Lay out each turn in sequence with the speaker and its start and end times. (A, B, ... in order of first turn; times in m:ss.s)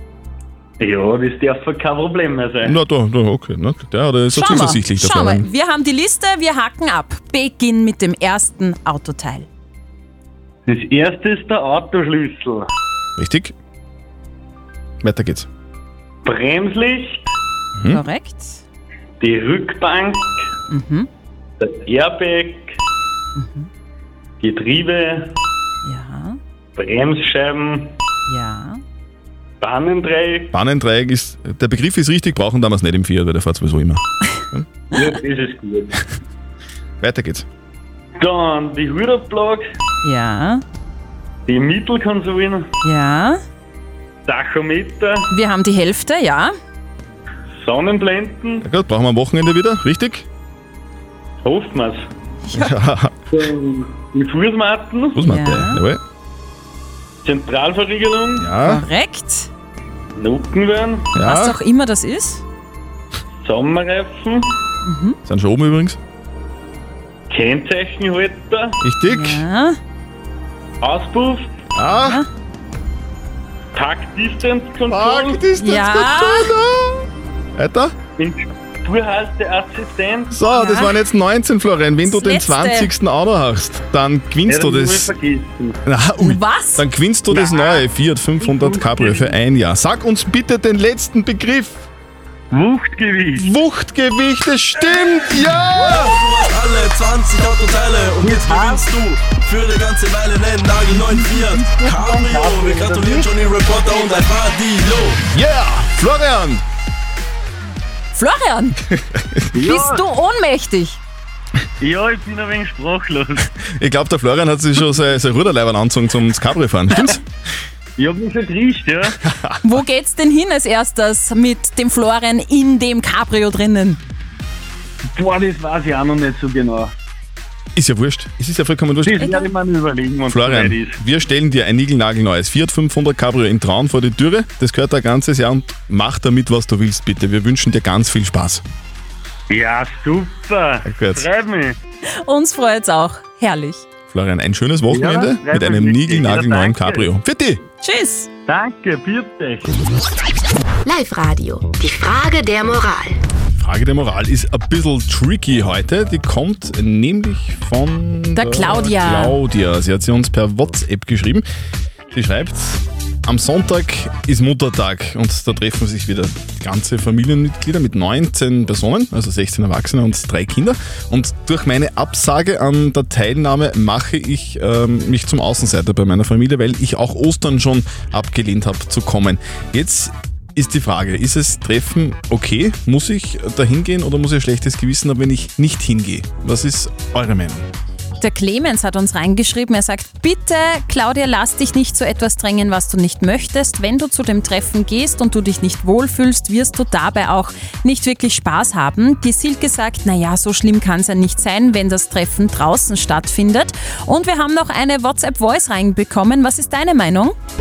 0:00.8-0:02.8 A
0:02.6-0:05.5 B
0:04.3-0:09.5 C
0:10.7-0:12.7 A
0:13.2-0:13.5 B
0:15.0-0:15.5 B
0:16.2-0:17.3 A
0:17.8-0:18.0 B
0:17.9-0:18.6 C
0:19.2-0:20.4 A
0:20.7-0:21.1 C
0:21.6-0:22.8 A
0:23.4-0:23.7 C
0:24.4-0:25.4 A
0:25.8-0:26.4 C
0:26.8-0:27.9 A
0:28.3-0:28.8 C
0:29.6-0:30.5 A
0:30.5-0:34.7 B
0:34.9-0:36.0 A
0:37.0-0:37.5 B
0:38.2-0:39.6 A
0:40.0-0:40.6 C
0:41.5-0:42.7 A
0:42.8-0:43.4 C
0:44.3-0:45.3 A
0:45.3-0:46.5 C
0:47.6-0:48.6 A
0:48.6-0:50.3 B
0:51.4-0:52.1 A
0:52.5-0:52.8 C
0:52.5-0:53.2 B
0:53.3-0:55.2 A
0:55.2-0:56.0 B
0:55.2-0:55.8 C
0:57.2-0:58.5 A
0:58.4-0:58.8 B
0:58.6-0:59.5 C
1:00.2-1:01.1 A
1:01.1-1:01.6 B
1:01.2-1:02.4 C
1:03.4-1:04.5 A
1:04.8-1:05.2 C
1:05.3-1:06.0 B
1:07.3-1:08.8 A
1:08.8-1:09.4 B
1:09.1-1:09.8 C
1:10.8-1:11.5 A
1:11.8-1:12.2 B
1:12.0-1:12.3 C
1:13.7-1:15.5 A
1:14.9-1:18.0 B
1:15.6-1:16.5 C
1:18.2-1:20.4 A
1:20.3-1:25.1 B
1:20.5-1:21.0 C
1:22.0-1:22.9 C
1:24.5-1:25.8 A
1:25.9-1:31.8 B
1:26.2-1:26.8 C
1:27.3-1:27.8 A
1:28.4-1:29.3 A
1:32.5-1:33.5 A
1:33.4-1:36.2 B
1:35.8-1:45.2 D
1:38.2-1:38.9 A
1:41.7-1:43.3 A
1:45.3-1:46.6 B
1:48.1-1:48.8 C
1:49.1-1:49.5 B
1:49.6-1:50.0 A
1:49.6-1:51.0 C
1:51.8-1:53.5 A
1:53.7-1:57.2 B
1:58.0-1:59.2 A
1:59.3-1:59.6 B
1:59.6-2:04.0 C
2:05.1-2:06.9 A
2:07.8-2:09.3 B
2:09.0-2:11.0 A
2:09.2-2:09.5 C
2:10.3-2:18.6 B
2:19.5-2:21.8 A
2:20.9-2:21.3 B
2:22.2-2:23.9 C
2:24.1-2:27.6 B
2:24.9-2:27.1 A
2:27.8-2:28.3 C
2:28.5-2:29.7 A
2:30.8-2:33.2 E
2:33.6-2:41.5 B
2:38.4-2:39.4 C
2:42.1-3:07.7 B
3:08.2-3:27.4 C